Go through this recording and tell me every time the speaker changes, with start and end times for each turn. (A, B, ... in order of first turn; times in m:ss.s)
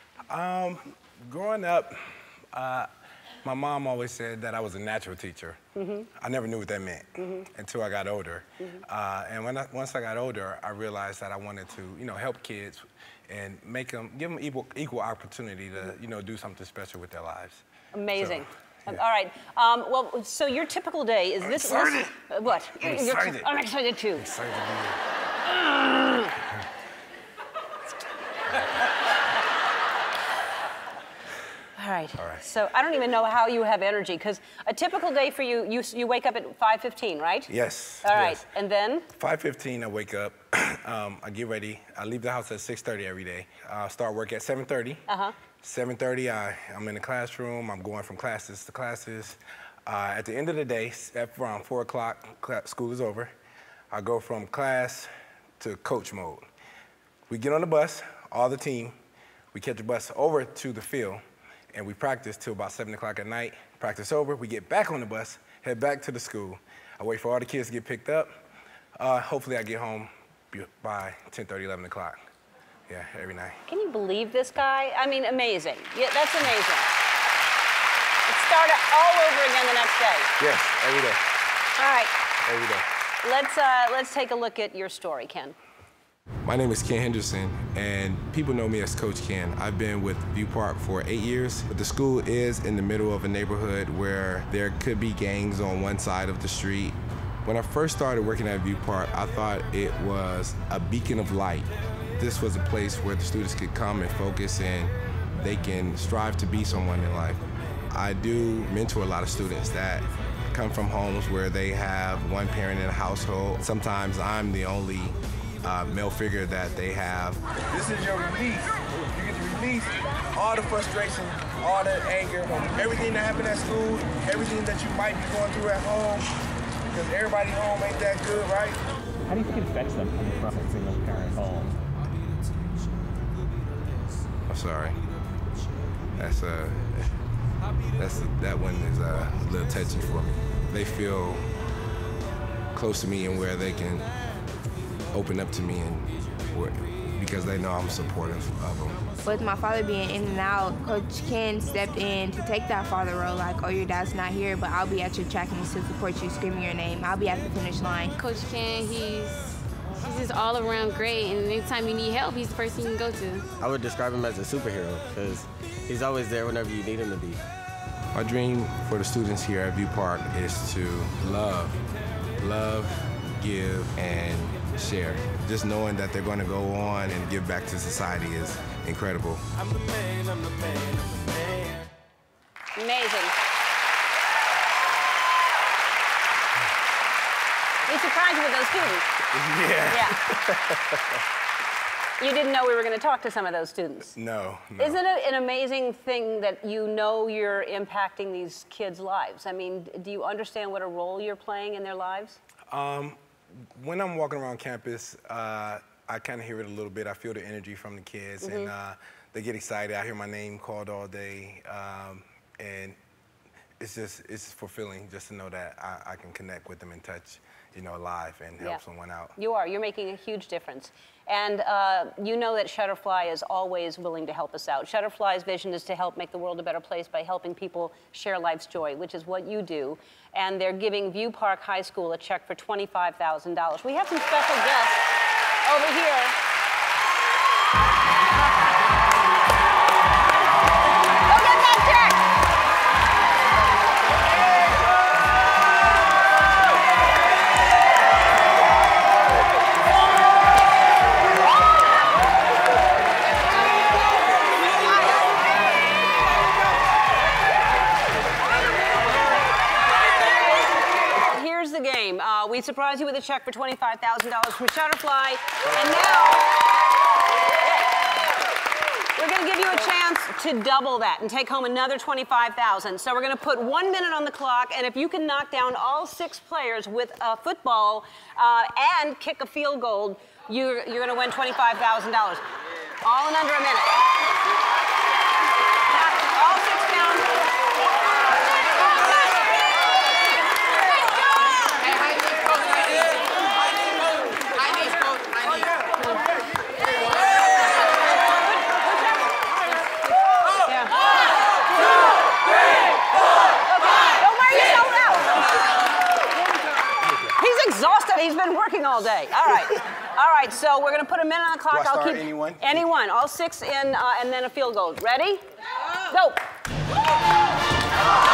0:00.3-0:02.0 A
0:02.5-0:02.9 A
0:03.4-0:05.6 A
0:05.8-0:06.1 B
0:06.2-0:17.6 A
0:07.2-0:07.5 B
0:17.9-0:24.3 B
0:18.2-0:19.0 A
0:21.5-0:22.1 A
0:22.7-0:23.5 A
0:24.2-0:25.0 A
0:25.5-0:26.3 B
0:31.8-0:37.5 B
0:32.2-0:32.4 A
0:37.5-0:38.4 A
0:38.0-0:39.1 B
0:39.2-0:45.0 A
0:45.1-0:45.4 B
0:45.6-0:53.3 A
0:53.9-0:56.5 A
0:57.3-0:59.0 A
0:59.5-1:08.4 A
1:09.0-1:12.2 A
1:12.9-1:13.6 A
1:13.7-1:16.9 B
1:18.3-1:20.3 B
1:20.4-1:21.2 A
1:21.8-1:22.1 B
1:22.4-1:22.8 A
1:23.2-1:25.6 B
1:26.4-1:57.4 A
1:57.7-1:58.7 C
1:59.2-1:59.8 C
2:00.6-2:06.2 C
2:06.9-2:08.8 C
2:09.3-2:11.8 D
2:14.5-2:15.0 A
2:16.2-2:17.1 A
2:18.0-2:21.5 A
2:22.7-2:24.1 A
2:25.1-2:29.0 A
2:29.3-2:38.1 E
2:38.1-2:39.4 F
2:40.0-2:43.4 F
2:43.6-2:47.4 G
2:48.1-2:51.8 A
2:52.4-2:59.4 A
3:02.8-3:03.4 B
3:07.9-3:09.1 B
3:09.3-3:11.2 A
3:09.9-3:10.2 B
3:12.2-3:14.2 B
3:14.2-3:15.0 A
3:14.8-3:22.4 B
3:22.7-3:23.2 A
3:23.8-3:33.0 A
3:28.4-3:28.7 B
3:33.8-3:39.4 A
3:39.4-3:55.0 B
3:55.6-3:56.4 B
4:01.3-4:02.3 B
4:21.2-4:26.6 B
4:29.2-4:42.4 B
4:43.0-4:44.1 B
4:45.9-4:47.3 B
5:00.6-5:01.1 B
5:01.8-5:02.2 B
5:03.6-5:05.5 B
5:07.2-5:15.4 B
5:11.7-5:12.8 A
5:16.1-5:16.4 B